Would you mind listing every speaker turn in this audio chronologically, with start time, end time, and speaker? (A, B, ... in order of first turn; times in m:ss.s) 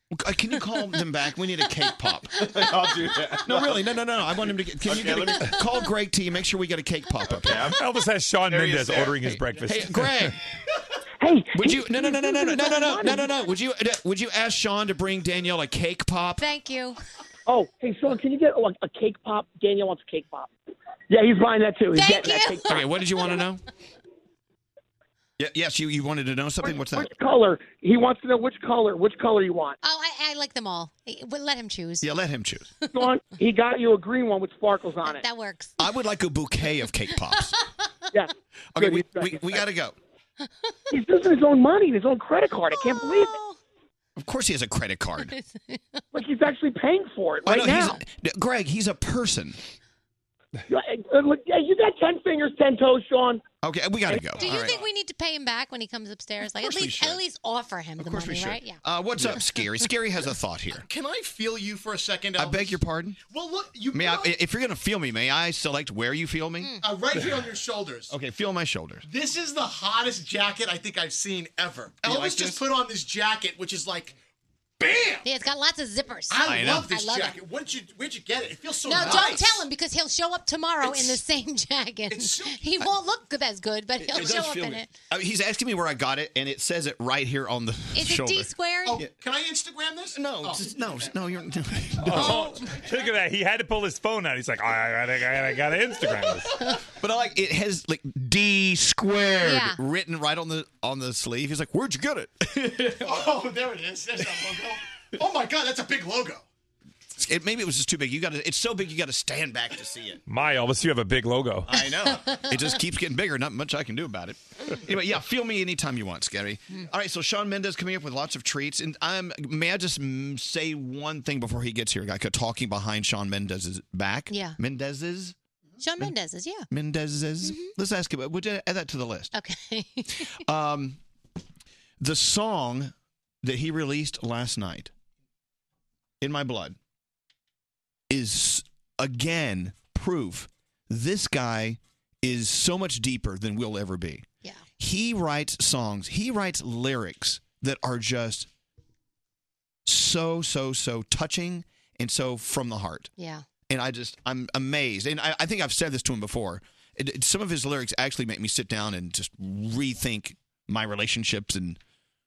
0:00.1-0:02.9 A
0:02.5-0:03.8 B
0:03.4-0:07.7 A
0:04.8-0:05.4 B
0:07.3-0:07.8 B
0:07.7-0:10.3 C
0:08.5-0:09.8 B
0:09.7-0:10.4 A
0:11.2-0:13.3 D
0:11.5-0:16.4 A
0:16.4-0:17.0 E
0:17.5-0:20.5 D
0:21.1-0:22.8 D
0:21.9-0:22.8 E
0:22.7-0:23.6 A
0:25.4-0:27.1 A
0:26.6-0:29.8 D
0:29.8-0:32.1 E
0:32.0-0:32.7 A
0:32.9-0:35.2 D
0:35.0-0:35.8 E
0:35.8-0:37.5 A
0:38.1-0:39.6 D
0:38.7-0:40.0 A
0:40.9-0:43.4 D
0:42.7-0:43.6 E
0:44.2-0:45.3 A
0:45.2-0:46.0 E
0:46.1-0:48.0 D
0:47.4-0:49.6 A
0:50.7-0:53.4 D
0:53.6-0:54.8 A
0:54.4-0:54.8 F
0:54.4-0:58.8 E
0:56.6-0:57.2 A
0:58.0-1:00.8 A
1:00.8-1:04.4 F
1:02.4-1:03.2 A
1:03.9-1:06.7 A
1:06.8-1:08.1 F
1:08.1-1:09.0 A
1:09.0-1:14.2 F
1:12.0-1:12.6 A
1:14.8-1:15.2 F
1:15.2-1:17.4 E
1:16.3-1:19.6 F
1:16.4-1:16.9 A
1:18.8-1:24.9 E
1:19.0-1:19.3 A
1:22.1-1:22.6 F
1:24.0-1:29.1 A
1:27.9-1:29.0 E
1:28.8-1:30.9 F
1:30.1-1:32.5 A
1:32.1-1:33.1 F
1:32.1-1:36.5 C
1:37.0-1:43.4 A
1:39.4-1:39.8 E
1:43.0-1:46.4 F
1:44.3-1:44.6 A
1:47.2-1:50.2 A
1:50.3-1:51.7 C
1:51.6-2:05.3 A
1:52.0-1:52.5 E
2:04.3-2:04.6 E
2:05.8-2:06.7 E
2:06.7-2:09.3 A
2:07.4-2:07.7 E
2:09.3-2:10.3 E
2:10.2-2:11.0 A
2:12.0-2:14.9 A
2:16.2-2:16.8 A
2:18.1-2:24.2 A
2:24.8-2:28.5 A
2:29.8-2:33.1 A
2:33.2-2:33.4 E
2:33.7-2:41.8 A